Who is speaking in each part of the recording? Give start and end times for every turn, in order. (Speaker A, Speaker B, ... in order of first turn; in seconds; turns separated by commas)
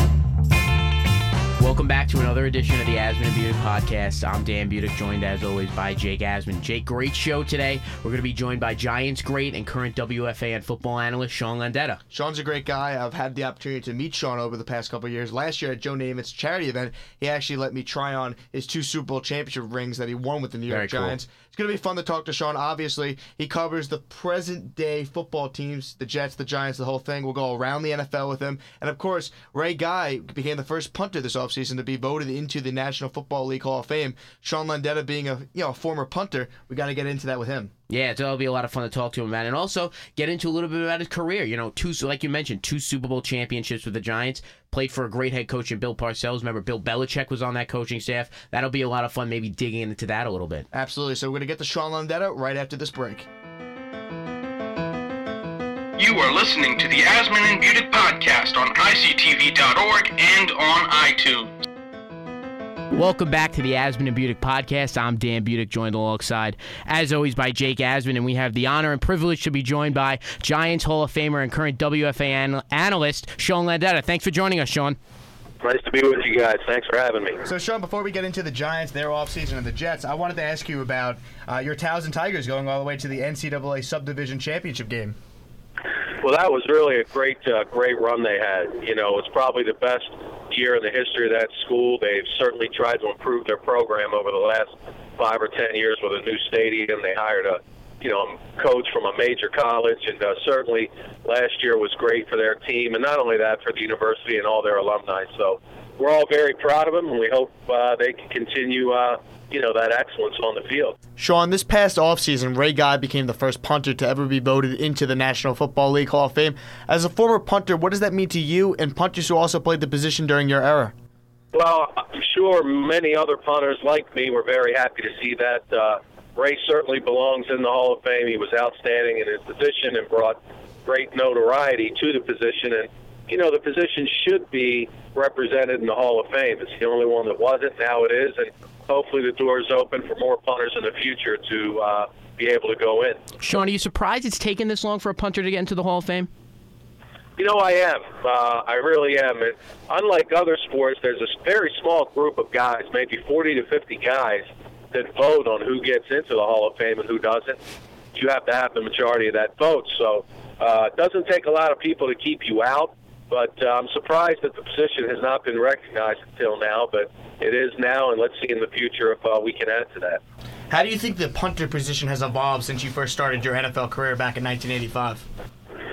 Speaker A: 1.6-12.0, Speaker B: 12.1-37.7, Speaker A: 20.7-21.2, Speaker A: 37.9-50.6, Speaker B: 50.7-53.3, Speaker C: 56.0-61.5, Speaker A: 62.9-75.0, Speaker D: 75.6-77.4, Speaker B: 77.4-85.2, Speaker D: 86.2-111.0, Speaker B: 111.2-120.9, Speaker D: 121.5-143.2, Speaker A: 143.4-146.3, Speaker D: 147.4-157.6, Speaker D: 158.1-170.2, Speaker B: 170.7-175.2